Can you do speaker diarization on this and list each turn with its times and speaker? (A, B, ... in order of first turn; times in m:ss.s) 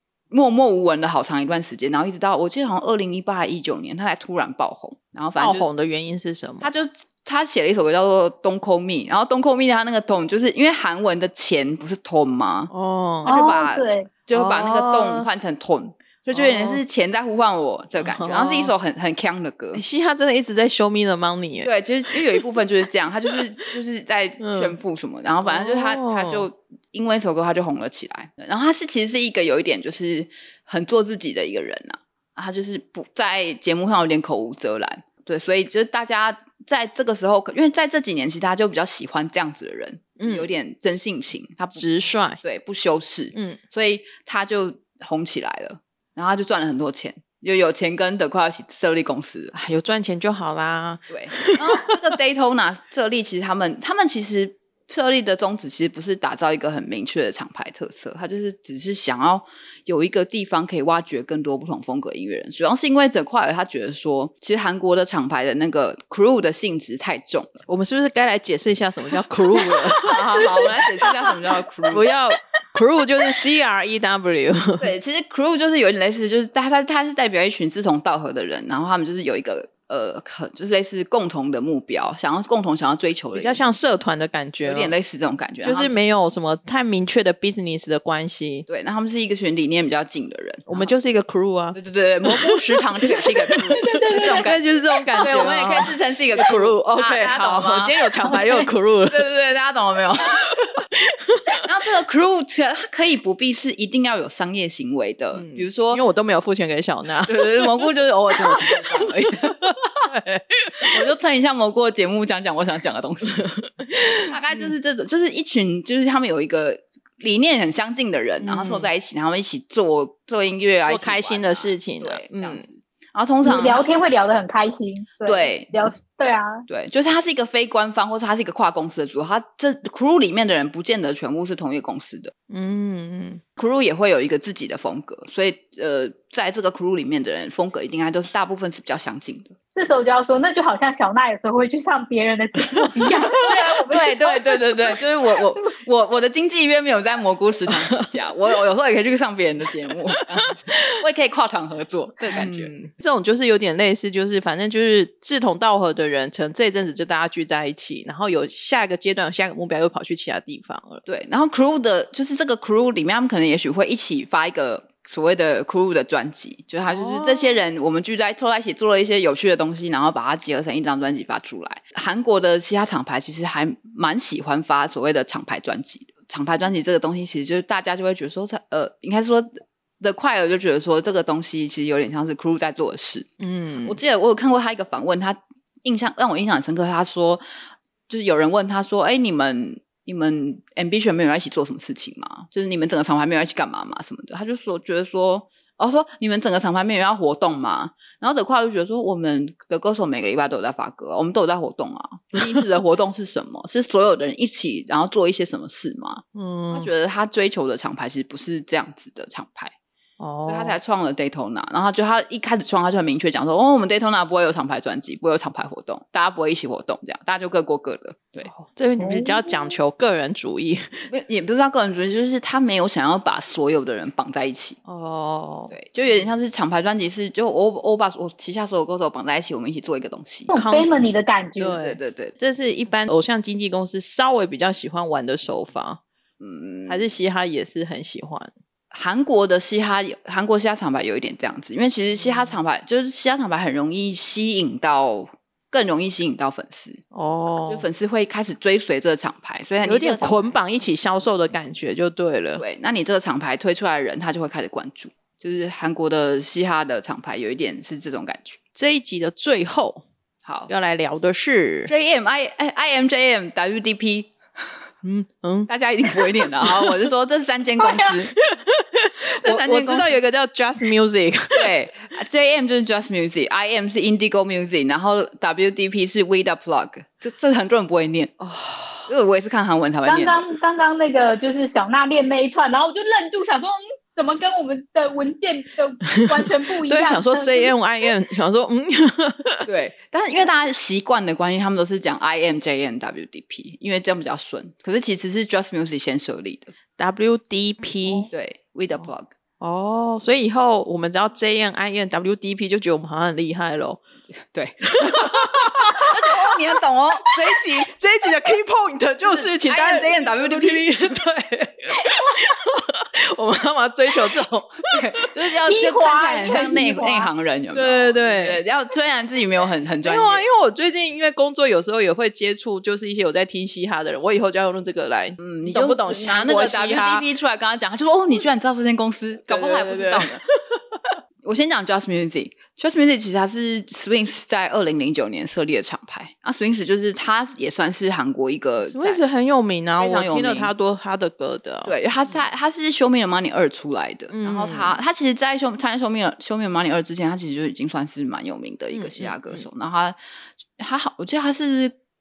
0:00.3-0:05.7 A
0:05.4-0:06.7 B
0:06.6-0:12.7 A
0:12.7-0:13.3 B
0:13.2-0:19.8 A
0:13.2-0:14.1 C
0:14.3-0:15.3 B
0:16.3-0:16.8 B
0:18.0-0:18.7 B
0:19.7-0:22.5 B
0:21.6-0:41.9 A
0:24.4-0:24.8 B
0:25.4-0:26.5 B
0:40.2-0:40.5 B
0:41.8-0:42.4 B
0:42.4-0:49.6 A
0:49.6-0:52.0 B
0:51.1-1:07.6 A
1:07.7-1:10.8 B
1:09.9-1:12.1 A
1:11.9-1:14.9 B
1:14.8-1:23.6 A
1:23.3-1:24.9 B
1:24.6-1:26.0 A
1:25.6-1:28.7 B
1:28.7-1:30.9 A
1:30.7-1:39.3 B
1:31.7-1:34.6 A
1:33.6-1:35.9 C
1:35.2-1:38.0 A
1:38.2-1:38.7 C
1:39.1-1:40.6 A
1:40.5-1:41.6 B
1:41.6-1:46.0 A
1:45.3-1:47.8 B
1:47.3-1:50.1 A
1:48.4-1:48.8 B
1:49.6-1:51.1 B
1:50.8-1:53.5 A
1:53.4-1:54.7 B
1:54.3-2:03.8 A
1:58.4-1:58.9 B
2:00.9-2:02.6 B
2:03.4-2:06.7 C
2:05.2-2:06.0 A
2:06.7-2:12.3 A
2:12.5-2:13.4 B
2:13.6-2:19.6 A
2:19.8-2:25.0 C
2:22.8-2:23.2 B
2:23.9-2:32.7 A
2:27.7-2:28.0 B
2:32.3-2:41.0 B
2:41.1-3:03.3 A
2:46.9-2:47.6 B
3:03.4-3:04.0 B
3:03.8-3:07.4 A
3:08.1-3:29.7 A
3:26.4-3:26.9 B
3:30.2-3:30.8 B
3:30.5-3:38.5 A
3:38.4-3:41.1 B
3:39.0-3:39.8 C
3:41.1-3:44.8 A
3:44.9-3:45.8 B
3:45.7-3:50.5 A
3:50.5-3:51.8 C
3:50.5-3:50.9 B
3:51.6-3:56.0 B
3:51.8-3:52.4 A
3:56.4-3:57.1 A
3:56.9-3:58.5 B
3:58.9-4:07.0 A
4:02.2-4:02.5 B
4:07.1-4:07.9 B
4:07.7-4:10.5 A
4:09.8-4:12.6 B
4:12.6-4:18.6 A
4:18.8-4:20.0 B
4:20.4-4:20.7 A
4:20.7-4:21.9 B
4:21.9-4:24.3 A
4:25.0-4:27.0 B
4:25.7-4:28.4 A
4:28.4-4:31.7 B
4:29.3-4:30.2 A
4:31.6-4:38.4 A
4:38.4-4:39.1 B
4:39.1-4:40.5 A
4:40.1-4:47.7 C
4:46.1-4:49.6 B
4:49.6-4:56.7 A
4:57.0-4:58.3 B
4:58.3-4:59.3 A
4:59.6-5:04.0 B
5:04.4-5:07.4 A
5:05.0-5:06.2 B
5:07.2-5:15.3 B
5:09.2-5:10.9 A
5:14.9-5:20.5 A
5:15.7-5:17.3 C
5:17.7-5:18.6 B
5:20.0-5:27.3 B
5:25.4-5:30.4 A
5:29.5-5:31.1 B
5:31.4-5:39.2 A
5:38.8-5:41.9 B
5:40.0-5:40.7 A
5:41.9-5:50.2 A
5:44.3-5:45.0 B
5:48.9-5:49.6 B
5:50.8-5:52.0 A